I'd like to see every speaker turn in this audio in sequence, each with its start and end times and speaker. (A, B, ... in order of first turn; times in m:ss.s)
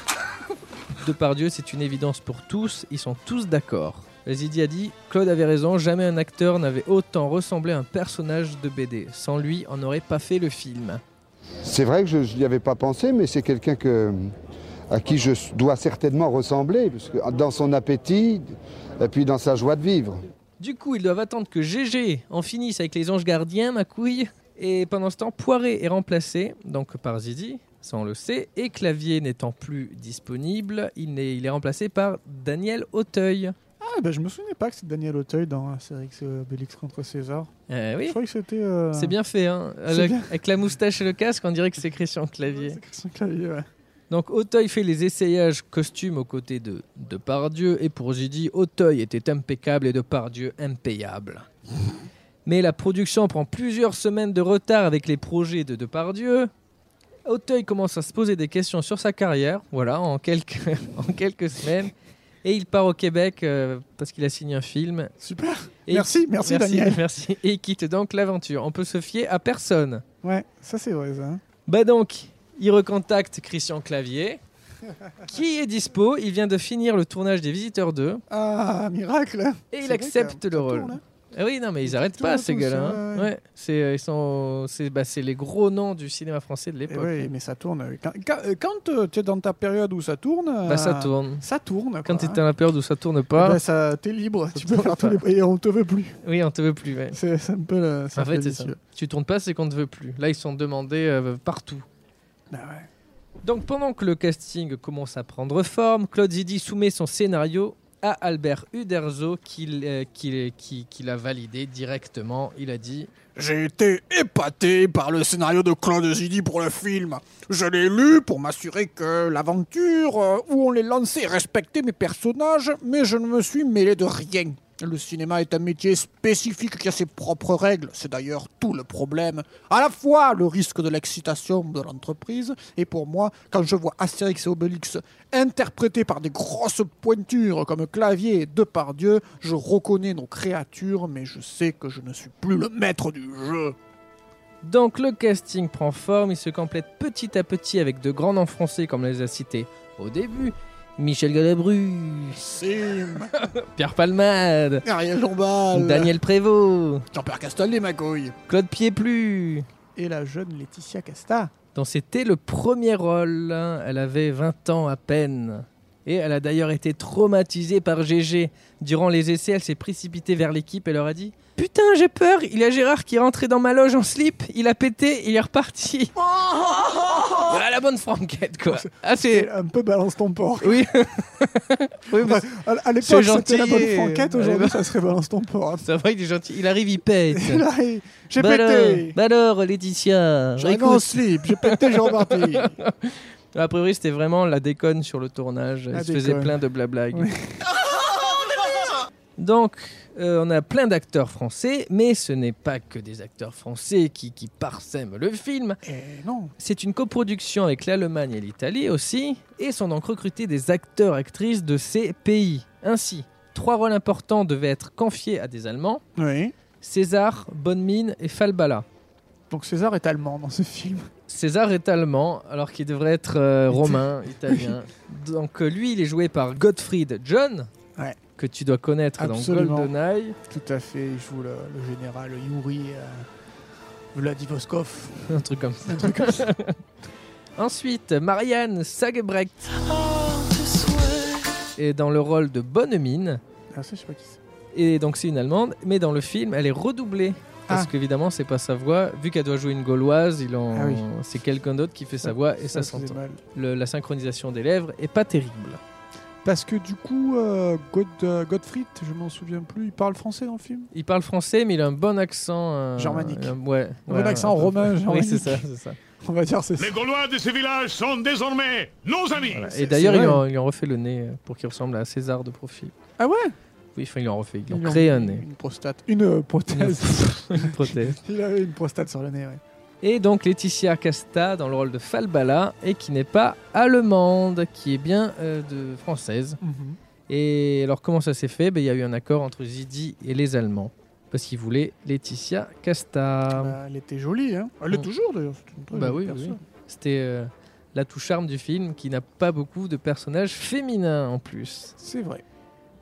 0:01.0-0:11.0 A
0:11.6-0:14.3 B
0:14.9-0:20.2 B
0:20.6-0:33.6 A
0:33.8-0:37.5 C
0:37.7-0:38.2 A
0:38.0-0:39.2 C
0:38.9-0:42.8 A
0:39.9-0:40.3 C
0:42.5-0:43.7 C
0:44.1-0:51.4 A
0:52.4-0:56.5 A
0:57.2-1:01.9 A
1:02.4-1:05.1 A
1:05.2-1:07.0 C
1:05.9-1:10.0 A
1:10.2-1:11.4 C
1:11.6-1:14.4 A
1:15.3-1:18.2 A
1:18.3-1:21.0 C
1:19.7-1:27.3 A
1:21.8-1:23.3 C
1:26.9-1:32.4 C
1:30.6-1:31.4 A
1:32.0-1:33.6 A
1:33.4-1:36.2 C
1:34.5-1:35.2 A
1:36.2-1:37.2 A
1:37.1-1:38.8 C
1:38.2-1:41.8 A
1:42.5-1:42.9 C
1:43.4-1:53.1 A
1:53.3-2:23.8 C
2:24.6-2:32.4 A
2:32.4-2:33.3 C
2:33.3-2:34.8 A
2:34.8-2:36.1 C
2:35.7-2:37.0 A
2:37.1-2:38.3 C
2:38.5-2:39.6 A
2:40.0-2:41.5 C
2:41.7-2:56.1 A
2:56.4-2:57.3 C
2:57.2-2:59.5 A
2:58.7-3:00.9 C
3:00.6-3:02.4 A
3:02.1-3:05.8 C
3:03.0-3:04.8 A
3:05.8-3:07.6 A
3:07.3-3:09.2 C
3:08.4-3:17.3 A
3:10.6-3:12.8 C
3:15.9-3:16.6 C
3:17.1-3:17.7 C
3:19.4-3:25.8 A
3:25.8-3:26.5 C
3:26.6-3:36.0 A
3:36.2-3:36.5 C
3:36.8-3:38.8 A
3:39.5-3:41.1 C
3:41.3-3:47.7 A
3:43.7-3:44.7 C
3:48.4-3:50.4 A
3:49.2-3:49.9 C
3:50.5-3:53.3 C
3:54.1-3:55.3 C
3:55.3-3:56.8 A
3:55.8-3:56.5 C
3:57.6-3:59.8 A
4:01.8-4:03.4 A
4:03.7-4:04.4 C
4:04.7-4:15.8 A
4:10.7-4:11.0 C
4:12.2-4:13.4 C
4:16.4-4:20.9 C
4:20.9-4:26.0 A
4:23.0-4:23.6 C
4:24.1-4:25.6 C
4:26.2-4:27.0 C
4:26.8-4:29.7 D
4:29.5-4:30.4 C
4:29.5-4:32.9 A
4:33.2-4:33.5 C
4:34.0-4:35.4 A
4:34.7-4:39.6 C
4:36.7-4:38.2 A
4:40.0-4:46.6 A
4:46.6-4:47.0 C
4:47.3-4:53.8 A
4:53.5-4:56.6 C
4:55.9-5:01.9 A
5:02.0-5:02.4 C